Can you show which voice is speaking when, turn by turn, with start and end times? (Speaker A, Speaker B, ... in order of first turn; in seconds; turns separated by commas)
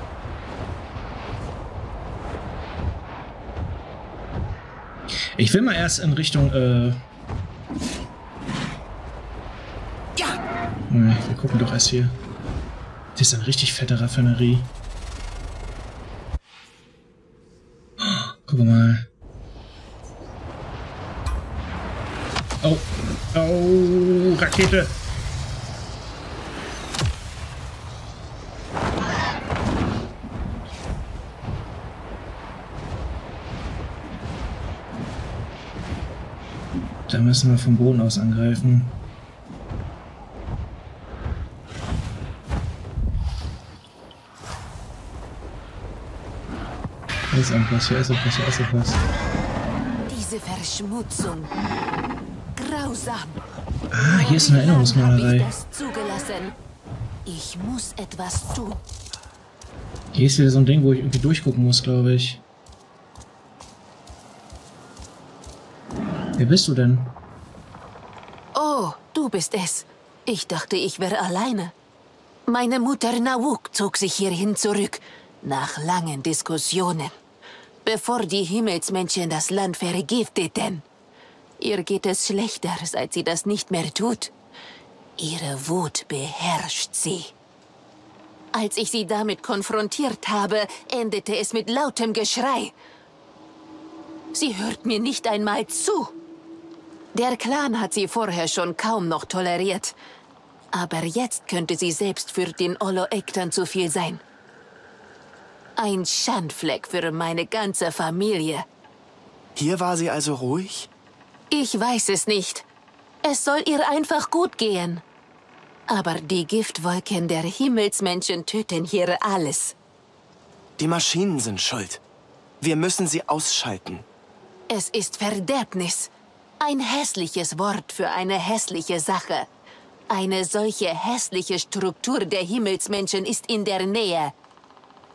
Speaker A: 5.4-7.0, Speaker A: 10.9-12.2, Speaker A: 13.1-14.7, Speaker A: 18.0-19.1, Speaker A: 22.6-25.0, Speaker A: 37.1-39.0, Speaker A: 47.3-49.0, Speaker B: 50.1-51.5, Speaker B: 52.5-53.4, Speaker A: 53.9-55.5, Speaker B: 54.0-56.5, Speaker B: 57.2-58.8, Speaker A: 60.1-62.4, Speaker A: 66.4-67.1, Speaker B: 68.5-71.7, Speaker B: 72.5-77.1, Speaker B: 77.8-80.8, Speaker B: 81.6-84.3, Speaker B: 85.2-87.3, Speaker B: 88.5-92.8, Speaker B: 94.3-96.1, Speaker B: 97.1-100.0, Speaker B: 100.7-104.2, Speaker B: 105.8-108.7, Speaker C: 109.5-110.9, Speaker B: 111.5-112.7, Speaker B: 113.2-115.0, Speaker B: 115.9-119.8, Speaker C: 120.8-122.0, Speaker C: 122.6-124.0, Speaker B: 124.7-129.5, Speaker B: 130.1-134.3